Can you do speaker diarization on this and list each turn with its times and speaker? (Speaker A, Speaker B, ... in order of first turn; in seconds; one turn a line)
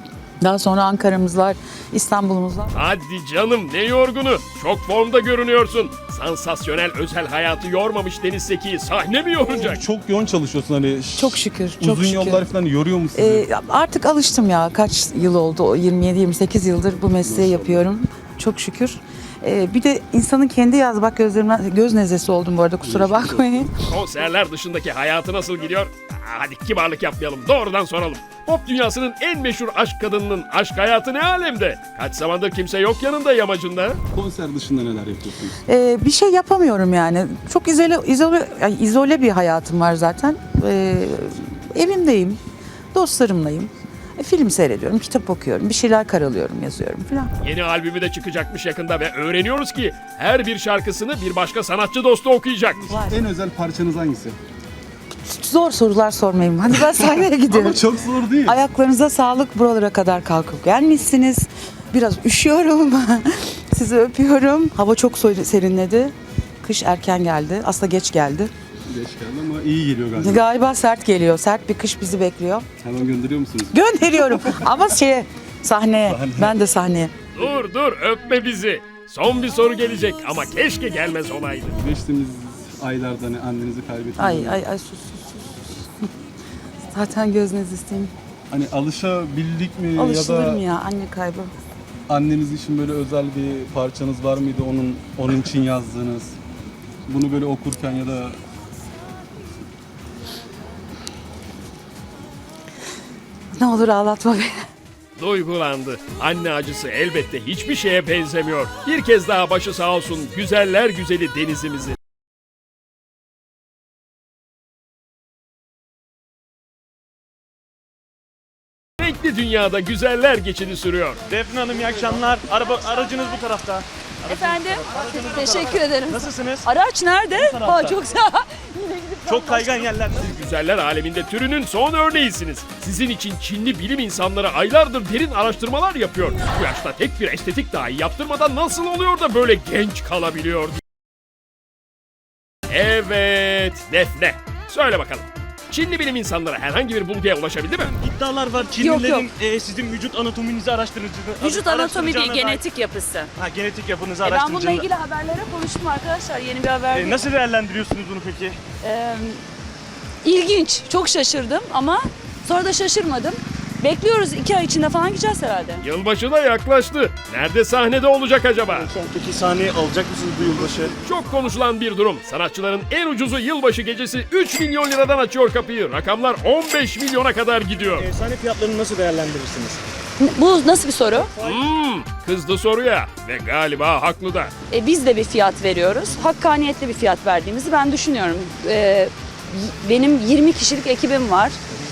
Speaker A: 0.4-2.7
Speaker B: 2.7-9.8
Speaker C: 9.5-13.5
Speaker A: 11.2-12.5
Speaker A: 13.2-23.7
Speaker C: 17.2-17.9
Speaker C: 22.8-23.7
Speaker B: 23.9-34.0
Speaker C: 34.1-35.5
Speaker A: 35.7-42.4
Speaker A: 42.9-47.3
Speaker B: 47.4-52.8
Speaker C: 52.8-54.4
Speaker A: 52.9-53.2
Speaker A: 55.2-68.5
Speaker C: 57.5-58.6
Speaker C: 68.9-70.4
Speaker A: 70.2-72.7
Speaker C: 72.8-73.8
Speaker A: 73.7-77.1
Speaker C: 76.0-76.5
Speaker B: 77.3-81.8
Speaker C: 81.8-84.6
Speaker A: 84.2-86.0
Speaker A: 86.9-88.1
Speaker C: 88.5-90.6
Speaker A: 90.0-91.5
Speaker C: 92.1-96.3
Speaker C: 97.1-98.4
Speaker A: 103.6-104.6
Speaker B: 105.2-112.0
Speaker B: 119.0-121.2
Speaker D: 121.3-126.7
Speaker E: 124.2-130.0
Speaker D: 127.3-128.1
Speaker D: 129.2-130.3
Speaker B: 130.1-140.8
Speaker B: 142.7-147.9
Speaker D: 147.7-152.7
Speaker E: 148.7-149.3
Speaker E: 151.4-153.3
Speaker D: 153.4-154.9
Speaker E: 154.2-157.2
Speaker D: 156.9-158.6
Speaker E: 158.8-159.4
Speaker E: 160.2-165.8
Speaker B: 165.8-168.9
Speaker D: 168.6-170.9
Speaker B: 171.0-178.1
Speaker D: 178.0-179.8
Speaker E: 180.2-181.3
Speaker D: 181.2-181.7
Speaker B: 181.4-184.5
Speaker E: 184.7-191.6